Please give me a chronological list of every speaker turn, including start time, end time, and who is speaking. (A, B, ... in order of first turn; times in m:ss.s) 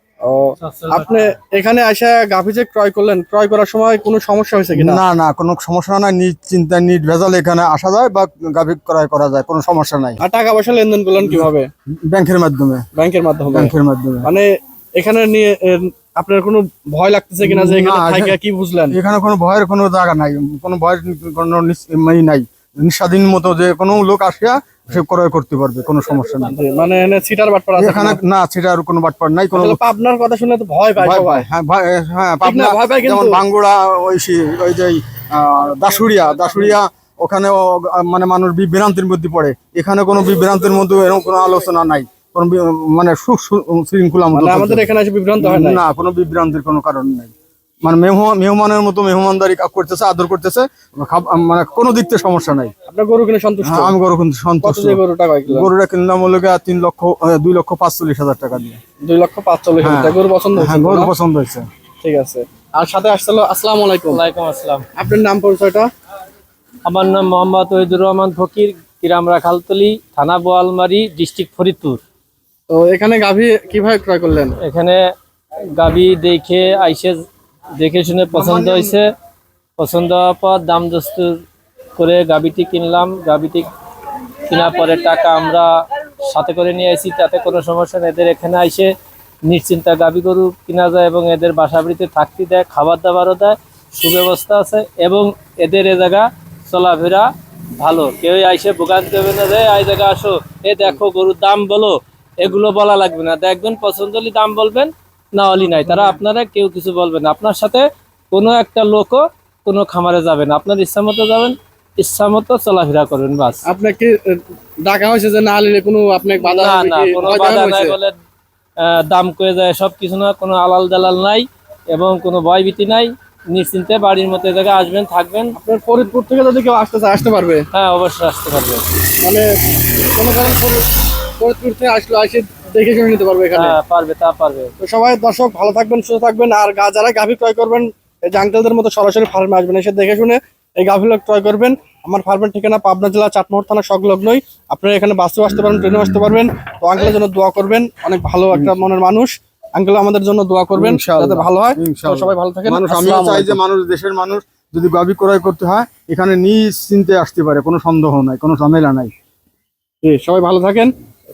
0:00.2-0:05.0 A
0:00.6-0:01.3 B
0:04.8-0:10.2 C
0:10.2-0:11.7 A
0:12.0-0:12.8 C
0:12.9-0:13.7 A
0:13.5-0:14.3 C
0:14.2-0:19.0 A
0:17.4-0:18.3 C
0:18.9-0:26.5 C
0:26.5-0:28.2 A
0:27.8-0:29.8 C
0:29.5-0:31.5 A
0:31.0-0:44.9 C
0:32.4-0:33.4 A
0:44.3-0:45.8 A
0:45.4-0:47.3 C
0:47.8-0:52.7 C
0:52.9-0:53.9 A
0:53.6-0:58.8 C
0:54.6-0:55.7 A
0:59.0-1:01.1 A
0:59.8-1:01.6 C
1:02.0-1:04.2 A
1:04.1-1:04.8 B
1:04.9-1:05.9 A
1:06.8-1:12.0 B
1:12.7-1:14.6 A
1:14.6-1:15.0 B
1:15.7-1:17.2 B
1:17.8-1:19.0 B
1:18.3-1:19.0 C
1:19.8-1:21.4 B
1:22.0-1:23.7 B
1:24.5-1:25.7 B
1:26.2-1:28.9 B
1:29.4-1:53.6 B
1:53.6-1:58.0 A
1:56.4-1:58.1 B
1:58.8-2:05.6 B
2:05.6-2:07.7 A
2:07.7-2:08.9 B
2:09.2-2:09.5 A
2:10.1-2:13.8 A
2:13.5-2:14.7 B
2:14.8-2:33.6 A
2:28.5-2:28.8 C
2:30.8-2:39.1 C
2:40.0-2:40.9 A